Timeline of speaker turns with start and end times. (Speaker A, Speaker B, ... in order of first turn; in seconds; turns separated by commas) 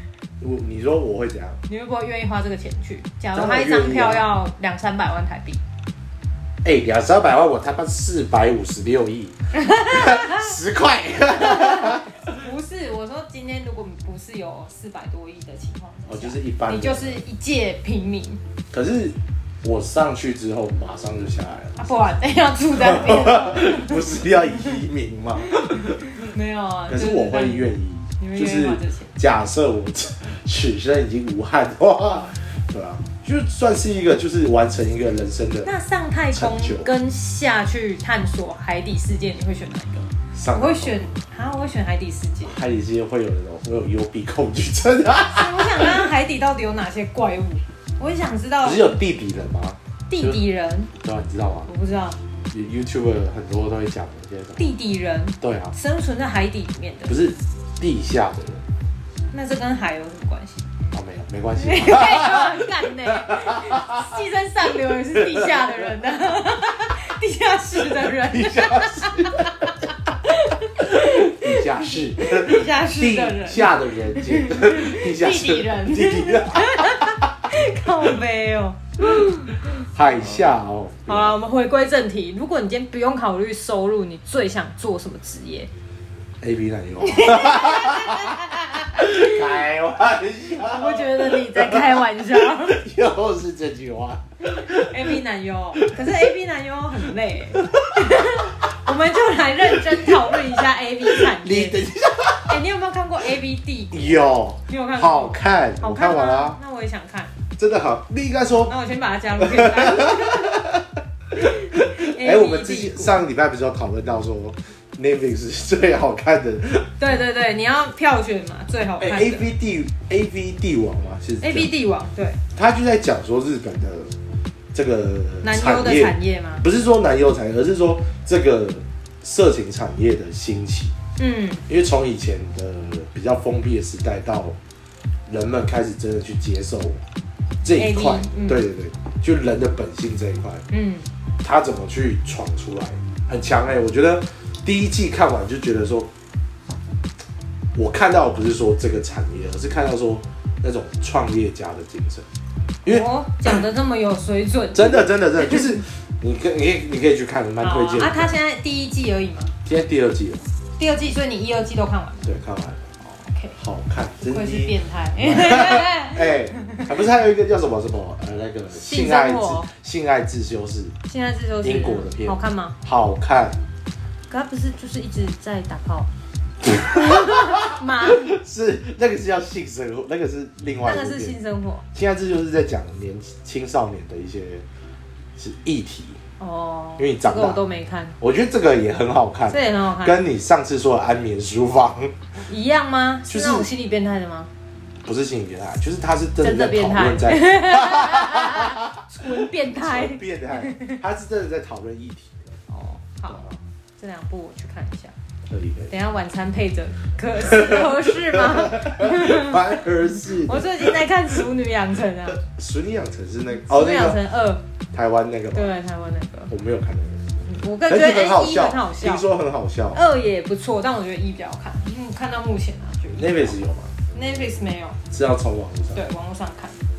Speaker A: 0.4-1.6, Speaker B: 1.7-5.6, Speaker A: 3.3-4.3, Speaker A: 6.6-12.3, Speaker B: 9.6-10.5, Speaker B: 11.3-18.4, Speaker A: 16.1-17.2, Speaker A: 18.7-21.9, Speaker B: 21.8-24.6, Speaker A: 22.8-26.1, Speaker B: 25.5-27.7, Speaker A: 26.9-35.7, Speaker B: 28.2-29.1, Speaker B: 35.6-42.6, Speaker A: 36.3-36.9, Speaker A: 40.4-41.1, Speaker A: 42.5-46.1, Speaker B: 45.2-49.0, Speaker A: 48.6-50.4, Speaker B: 50.1-50.9, Speaker A: 51.0-51.7, Speaker B: 51.7-52.2, Speaker A: 52.5-54.7, Speaker B: 54.6-57.2, Speaker A: 55.4-55.7, Speaker A: 57.1-58.6, Speaker B: 59.3-60.7, Speaker A: 60.9-64.2, Speaker B: 61.6-79.6, Speaker A: 65.0-66.0, Speaker A: 68.0-69.9, Speaker A: 70.8-77.3, Speaker A: 79.8-81.3, Speaker B: 81.1-85.7, Speaker A: 86.4-95.2, Speaker B: 87.0-89.5, Speaker B: 90.6-92.8, Speaker B: 94.4-101.8, Speaker A: 95.8-96.3, Speaker A: 97.5-98.3, Speaker A: 99.8-100.4, Speaker A: 101.0-102.6, Speaker B: 102.5-107.3, Speaker A: 103.9-106.6, Speaker A: 107.6-108.7, Speaker B: 108.7-110.6, Speaker A: 109.4-117.1, Speaker B: 111.3-113.2, Speaker B: 117.0-119.5, Speaker A: 119.0-121.7, Speaker B: 121.4-122.4, Speaker A: 122.5-124.1, Speaker A: 124.7-130.9, Speaker B: 125.4-126.6, Speaker B: 131.2-131.6, Speaker A: 131.7-134.6, Speaker A: 135.3-137.0, Speaker A: 137.6-140.6, Speaker B: 137.8-138.6, Speaker B: 140.7-141.1, Speaker A: 141.4-146.1, Speaker A: 147.8-152.3, Speaker A: 152.8-153.6, Speaker B: 152.8-155.8, Speaker A: 154.7-158.3, Speaker B: 157.6-159.5, Speaker A: 159.7-160.5, Speaker B: 160.8-162.3, Speaker A: 162.2-162.8, Speaker B: 163.0-163.6, Speaker A: 163.6-171.0, Speaker B: 164.2-166.9, Speaker B: 168.7-169.7, Speaker B: 171.1-172.8, Speaker A: 171.6-173.6, Speaker B: 174.3-176.1, Speaker A: 176.6-181.4, Speaker B: 176.7-178.4, Speaker B: 180.8-181.8, Speaker A: 181.9-184.7, Speaker A: 185.4-186.2, Speaker B: 186.4-188.2, Speaker A: 187.0-187.6, Speaker A: 188.2-192.1, Speaker B: 189.5-190.2, Speaker B: 192.5-194.5, Speaker A: 193.3-193.7, Speaker A: 195.1-202.5, Speaker B: 196.4-201.0, Speaker B: 202.7-203.4, Speaker A: 203.3-203.6, Speaker B: 204.0-205.1, Speaker A: 205.5-205.9, Speaker B: 205.9-212.4, Speaker A: 207.4-211.0, Speaker A: 212.3-214.2, Speaker B: 213.7-214.6, Speaker A: 214.9-215.7, Speaker B: 215.5-216.5, Speaker A: 216.5-217.3, Speaker B: 217.4-219.2, Speaker A: 217.9-220.0, Speaker B: 219.9-223.6, Speaker A: 223.2-223.9, Speaker B: 224.1-225.0, Speaker A: 225.1-226.0, Speaker B: 225.9-226.8